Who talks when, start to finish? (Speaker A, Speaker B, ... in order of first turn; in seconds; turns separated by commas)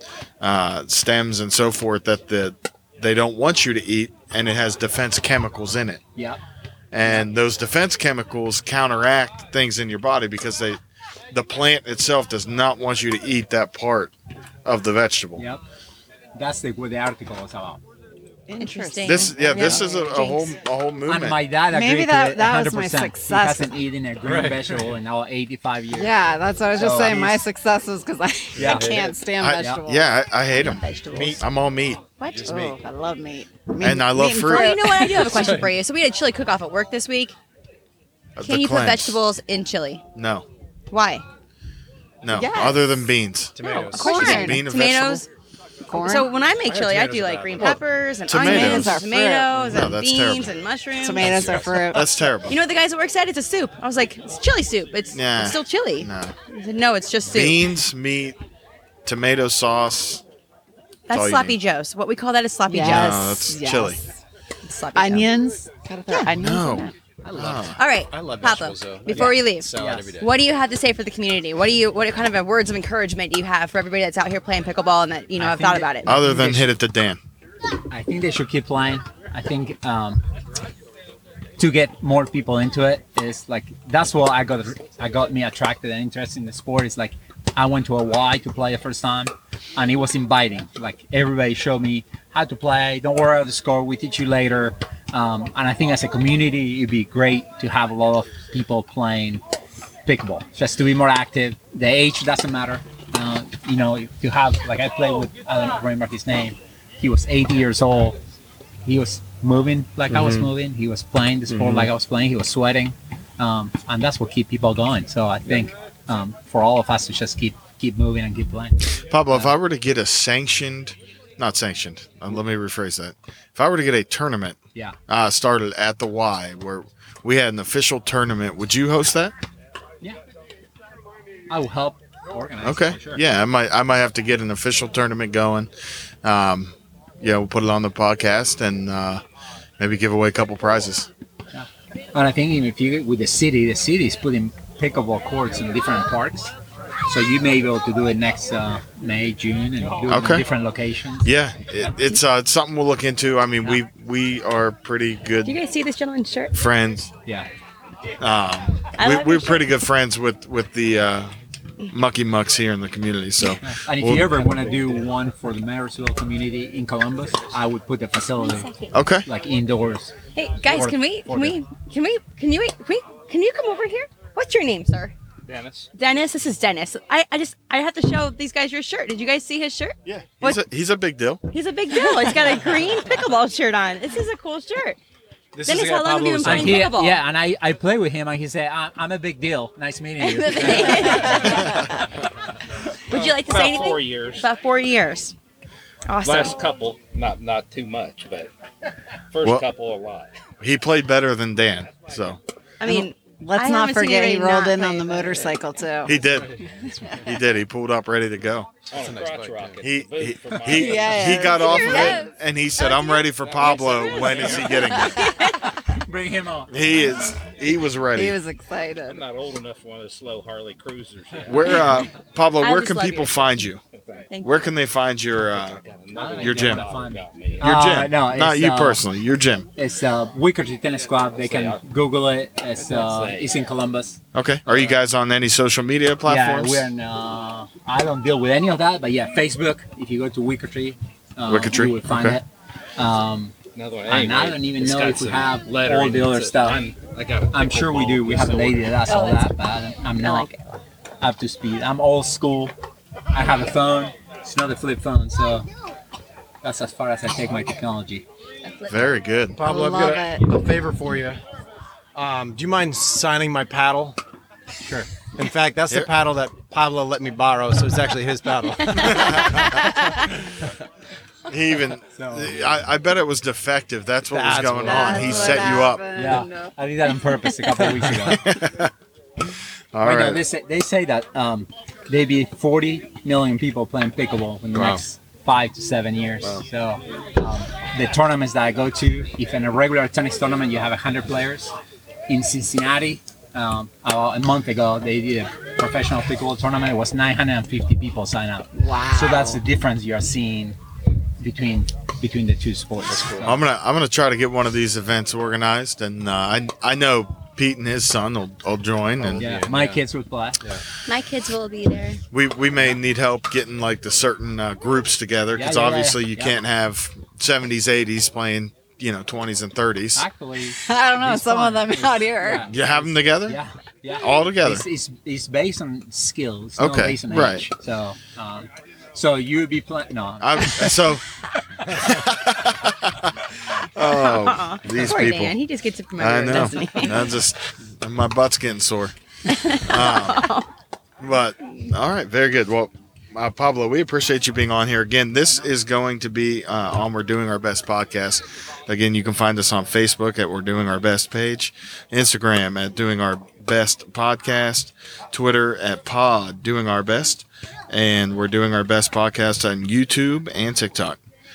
Speaker A: 0.4-6.0, Speaker A: 6.9-10.8, Speaker A: 11.3-14.1, Speaker A: 14.6-15.4, Speaker B: 16.4-17.8, Speaker C: 18.5-20.1, Speaker D: 18.6-20.5, Speaker A: 19.0-21.4, Speaker B: 21.1-26.1, Speaker C: 21.6-23.8, Speaker E: 24.2-24.8, Speaker C: 25.9-30.1, Speaker B: 26.7-27.4, Speaker B: 28.6-28.9, Speaker E: 28.6-29.2, Speaker A: 29.4-32.0, Speaker D: 30.6-31.4, Speaker E: 31.1-31.4, Speaker D: 32.2-32.5, Speaker E: 32.2-32.8, Speaker C: 32.4-35.6, Speaker A: 33.8-34.9, Speaker D: 34.2-37.3, Speaker E: 35.2-35.6, Speaker A: 38.4-39.2, Speaker D: 38.4-40.0, Speaker A: 40.1-40.5, Speaker D: 40.9-41.2, Speaker A: 42.2-43.5, Speaker C: 42.3-42.8, Speaker E: 43.5-44.5, Speaker D: 43.6-45.3, Speaker C: 43.9-44.7, Speaker A: 44.1-45.2, Speaker C: 45.9-46.3, Speaker D: 45.9-51.5, Speaker E: 46.6-47.8, Speaker A: 47.6-49.0, Speaker C: 48.3-49.6, Speaker A: 49.6-50.6, Speaker C: 51.0-52.1, Speaker E: 51.2-51.9, Speaker A: 51.3-52.6, Speaker D: 52.5-57.7, Speaker A: 55.1-56.3, Speaker A: 57.3-58.4, Speaker A: 59.0-60.2, Speaker D: 61.1-63.4, Speaker A: 61.1-61.6, Speaker C: 62.7-64.2, Speaker A: 62.8-64.0, Speaker D: 64.6-65.3, Speaker C: 64.9-66.9, Speaker D: 66.1-66.3, Speaker A: 66.4-67.8, Speaker E: 67.3-70.3, Speaker D: 67.8-76.1, Speaker B: 69.1-70.1, Speaker B: 75.4-76.7, Speaker A: 76.0-77.2, Speaker B: 77.9-80.2, Speaker B: 81.6-99.4, Speaker B: 100.0-108.2, Speaker B: 108.8-118.8, Speaker E: 110.1-110.5, Speaker E: 111.5-111.9, Speaker A: 118.9-129.3, Speaker B: 131.5-133.2, Speaker A: 132.6-135.7, Speaker A: 136.2-139.2, Speaker A: 139.8-141.1, Speaker B: 141.5-146.5, Speaker B: 147.1-151.3, Speaker A: 150.1-150.4, Speaker A: 151.2-155.6, Speaker D: 155.4-156.5, Speaker A: 156.5-157.1, Speaker A: 158.2-161.3, Speaker D: 159.0-159.7, Speaker A: 161.9-164.5, Speaker B: 163.6-168.7, Speaker D: 168.4-168.9, Speaker A: 168.9-169.3, Speaker B: 169.2-170.1, Speaker D: 170.3-175.1, Speaker B: 170.7-171.6, Speaker F: 175.5-175.9, Speaker D: 175.9-180.6, Speaker A: 180.0-181.4, Speaker D: 181.5-185.0, Speaker E: 185.5-186.9, Speaker D: 185.6-187.2, Speaker B: 186.4-191.8, Speaker D: 190.2-192.1, Speaker D: 193.1-195.3, Speaker F: 193.1-194.5, Speaker D: 196.1-196.6, Speaker F: 196.2-198.5, Speaker F: 199.3-200.3, Speaker A: 200.6-202.4, Speaker D: 202.8-205.5, Speaker C: 202.8-206.2, Speaker A: 206.1-206.6, Speaker A: 207.2-208.7, Speaker F: 208.9-211.6, Speaker E: 208.9-209.8, Speaker A: 209.8-215.2, Speaker C: 210.7-212.3, Speaker D: 211.7-212.2, Speaker F: 213.2-215.3, Speaker C: 214.8-215.2, Speaker D: 215.2-215.5, Speaker B: 215.7-217.1, Speaker A: 216.7-218.4, Speaker C: 218.1-219.2, Speaker F: 219.0-222.1, Speaker A: 221.5-223.8, Speaker D: 222.6-223.5, Speaker F: 223.1-224.3, Speaker D: 224.3-224.7, Speaker A: 224.4-225.8, Speaker F: 225.5-227.8, Speaker B: 226.1-229.0, Speaker A: 226.4-226.9, Speaker A: 227.6-229.7, Speaker B: 229.8-234.2, Speaker F: 231.1-231.8, Speaker F: 232.8-233.6, Speaker A: 234.3-236.9, Speaker B: 236.2-246.9, Speaker A: 241.5-242.4, Speaker F: 243.7-249.0, Speaker B: 247.5-250.5, Speaker D: 249.1-249.5, Speaker D: 250.2-250.6, Speaker B: 251.2-252.7, Speaker B: 253.3-255.7, Speaker B: 256.6-258.2, Speaker D: 258.6-259.1, Speaker A: 258.9-259.6, Speaker E: 259.6-261.4, Speaker C: 259.6-260.4, Speaker E: 262.1-264.2, Speaker E: 265.3-270.3, Speaker A: 271.4-276.1, Speaker B: 272.1-272.6, Speaker E: 274.3-275.8, Speaker C: 274.8-277.5, Speaker B: 276.1-278.5, Speaker A: 278.2-278.9, Speaker A: 279.9-280.4, Speaker B: 280.0-291.7, Speaker E: 284.7-285.0, Speaker B: 292.3-300.8, Speaker C: 298.7-299.6, Speaker B: 301.4-303.6, Speaker E: 303.0-303.6, Speaker A: 303.4-309.5, Speaker E: 309.2-310.0, Speaker B: 309.4-310.6, Speaker D: 311.1-312.2, Speaker A: 312.3-320.2, Speaker B: 315.6-316.6, Speaker B: 320.1-331.1, Speaker C: 320.8-322.7, Speaker A: 322.7-323.6, Speaker A: 324.2-324.8, Speaker A: 326.8-327.6, Speaker A: 330.4-331.2, Speaker A: 331.9-335.6, Speaker D: 334.0-337.3, Speaker A: 336.2-339.1, Speaker D: 339.4-340.7, Speaker A: 339.8-340.5, Speaker A: 341.2-361.2